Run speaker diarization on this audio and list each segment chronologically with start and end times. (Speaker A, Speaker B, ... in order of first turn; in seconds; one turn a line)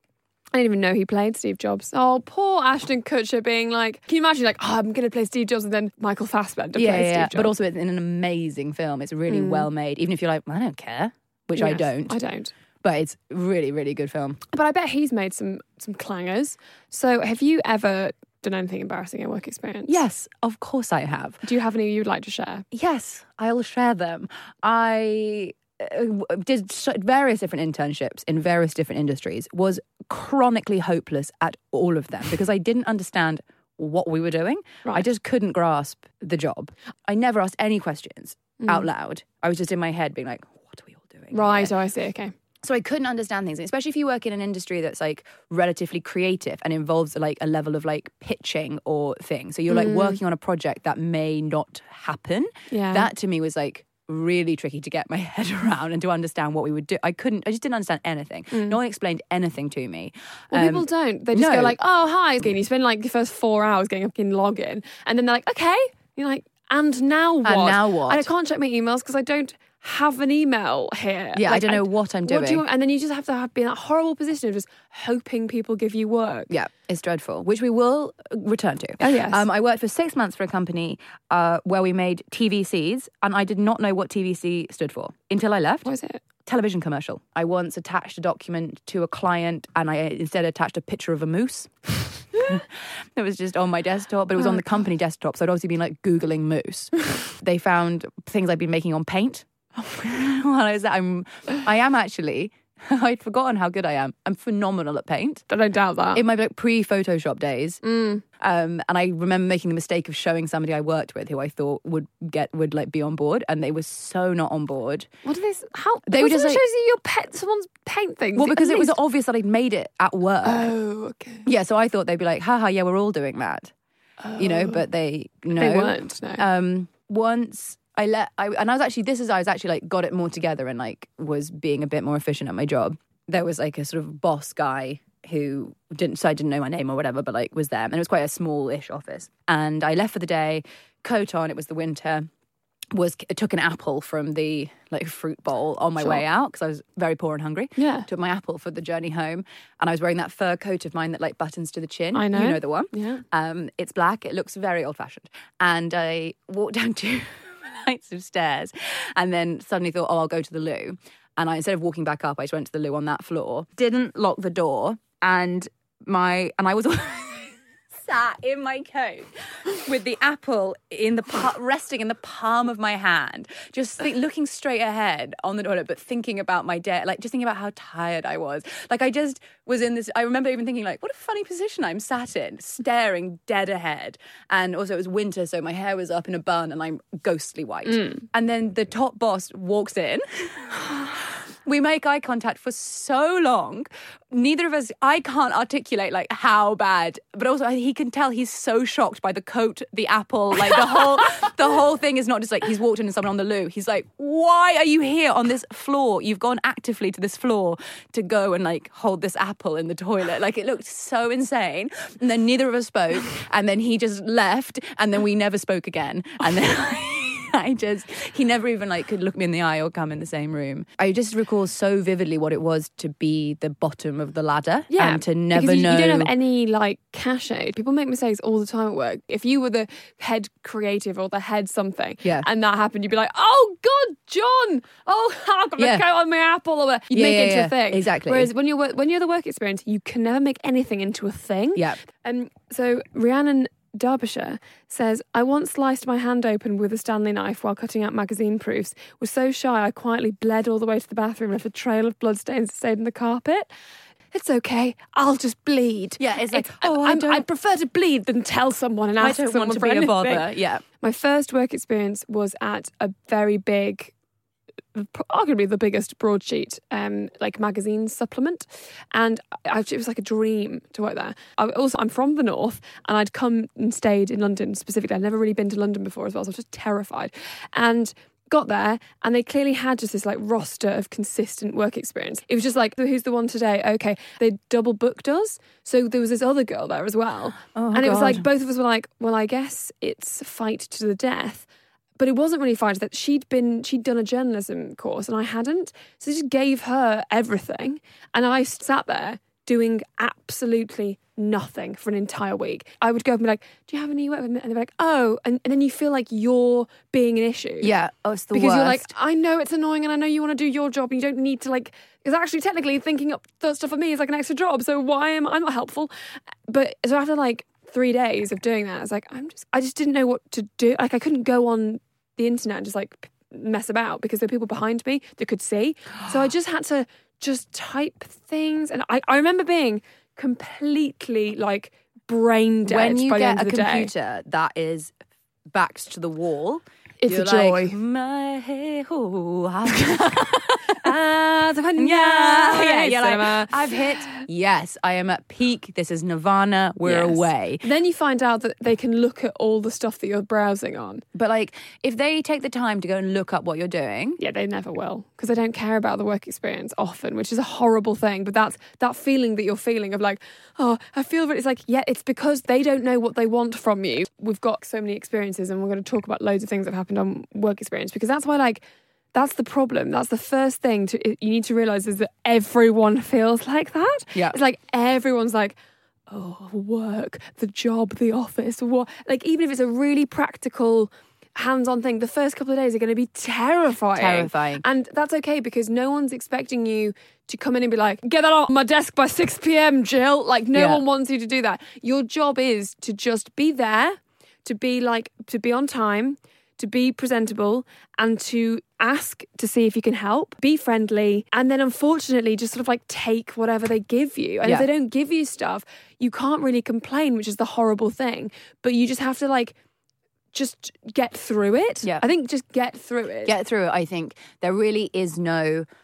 Speaker A: 0.5-7.5
Speaker B: 6.8-12.2
Speaker A: 9.3-9.7
Speaker A: 11.6-12.5
Speaker B: 12.8-14.4
Speaker A: 14.5-20.0
Speaker B: 19.9-21.4
Speaker A: 21.4-22.6
Speaker B: 22.7-41.7
Speaker A: 38.6-38.9
Speaker A: 41.3-42.3
Speaker B: 42.6-61.8
Speaker A: 49.7-50.2
Speaker A: 52.7-53.1
Speaker A: 60.5-76.5
Speaker B: 67.4-68.3
Speaker B: 71.3-72.6
Speaker B: 76.5-85.9
Speaker A: 79.0-79.4
Speaker A: 85.8-86.2
Speaker B: 86.4-91.7
Speaker B: 92.3-105.4
Speaker A: 105.5-106.2
Speaker B: 106.1-107.8
Speaker A: 107.8-108.2
Speaker B: 108.4-115.1
Speaker A: 115.2-119.0
Speaker B: 116.1-116.6
Speaker B: 118.3-120.7
Speaker A: 120.4-121.5
Speaker B: 121.5-123.7
Speaker A: 124.2-124.8
Speaker B: 124.4-142.3
Speaker A: 125.5-126.4
Speaker B: 142.9-226.3
Speaker A: 147.8-148.1
Speaker A: 152.1-153.2
Speaker A: 224.9-253.7
Speaker B: 235.8-236.0
Speaker B: 237.1-238.5
Speaker A: 254.3-260.5
Speaker B: 256.2-257.4
Speaker B: 259.2-260.8
Speaker A: 261.0-264.1
Speaker A: 264.9-291.6
Speaker B: 287.7-288.4
Speaker A: 292.2-307.9
Speaker B: 307.8-309.1
Speaker A: 308.5-316.1
Speaker A: 316.7-334.1
Speaker B: 332.8-335.1
Speaker B: 335.7-341.2
Speaker A: 337.2-337.9
Speaker A: 340.1-344.3
Speaker B: 341.9-347.8
Speaker A: 347.0-351.2
Speaker B: 351.3-354.4
Speaker A: 354.4-375.7
Speaker A: 376.3-409.7
Speaker B: 384.2-384.8
Speaker B: 390.7-391.0
Speaker A: 410.5-413.6
Speaker B: 413.4-415.9